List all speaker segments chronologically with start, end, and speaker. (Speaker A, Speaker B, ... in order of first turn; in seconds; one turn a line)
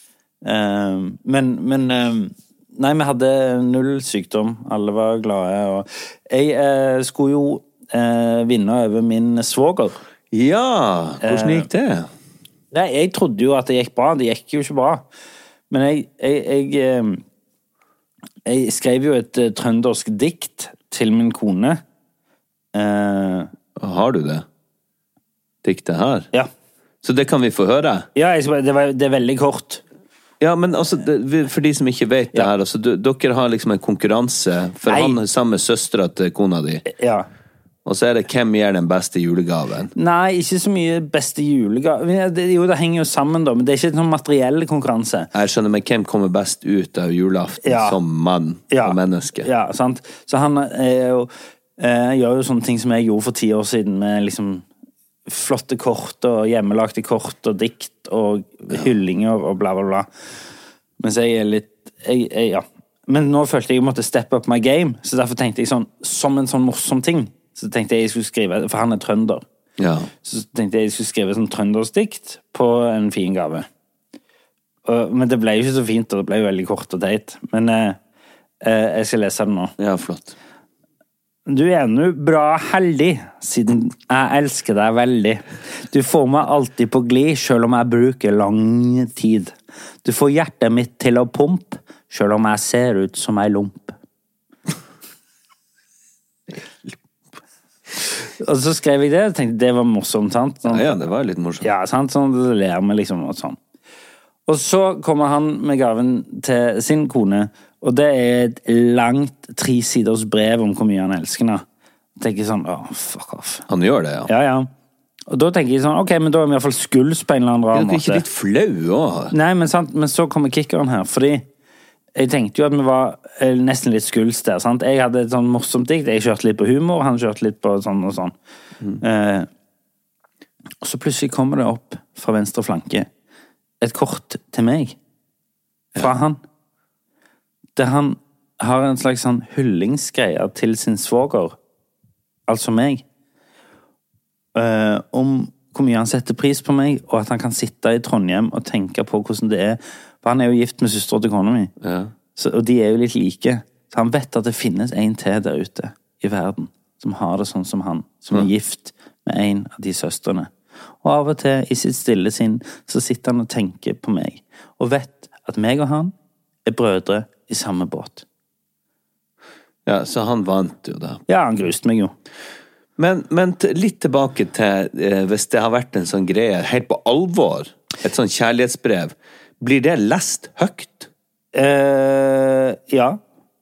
Speaker A: 0.4-10.0
Speaker B: 10.3-12.1
Speaker A: 11.2-11.7
Speaker A: 12.7-15.0
Speaker A: 15.7-17.2
Speaker A: 18.4-21.8
Speaker A: 22.7-23.5
Speaker B: 23.8-24.4
Speaker B: 25.6-26.3
Speaker B: 27.0-28.1
Speaker A: 28.1-29.8
Speaker B: 30.4-36.8
Speaker A: 34.9-35.2
Speaker A: 36.9-37.3
Speaker B: 37.9-39.9
Speaker A: 39.9-45.3
Speaker B: 45.3-49.5
Speaker A: 47.6-48.0
Speaker A: 48.7-54.6
Speaker A: 55.3-60.1
Speaker A: 61.0-69.4
Speaker B: 69.8-70.1
Speaker A: 70.2-73.7
Speaker A: 74.8-78.0
Speaker A: 78.6-79.7
Speaker B: 79.8-80.3
Speaker A: 81.5-94.0
Speaker B: 96.5-96.9
Speaker A: 98.4-101.0
Speaker B: 100.6-101.7
Speaker A: 101.6-103.6
Speaker A: 104.5-111.6
Speaker A: 112.2-113.7
Speaker B: 113.7-114.3
Speaker A: 114.3-114.7
Speaker A: 115.3-118.2
Speaker B: 117.7-119.3
Speaker A: 119.3-121.5
Speaker A: 122.1-128.3
Speaker A: 129.0-129.5
Speaker A: 130.8-133.1
Speaker A: 133.8-134.9
Speaker A: 135.9-136.4
Speaker A: 137.8-141.6
Speaker A: 142.5-143.0
Speaker A: 144.5-151.7
Speaker B: 151.8-152.1
Speaker A: 152.3-166.1
Speaker A: 166.7-168.2
Speaker B: 169.8-171.2
Speaker A: 171.3-172.1
Speaker B: 173.0-181.1
Speaker A: 181.5-183.2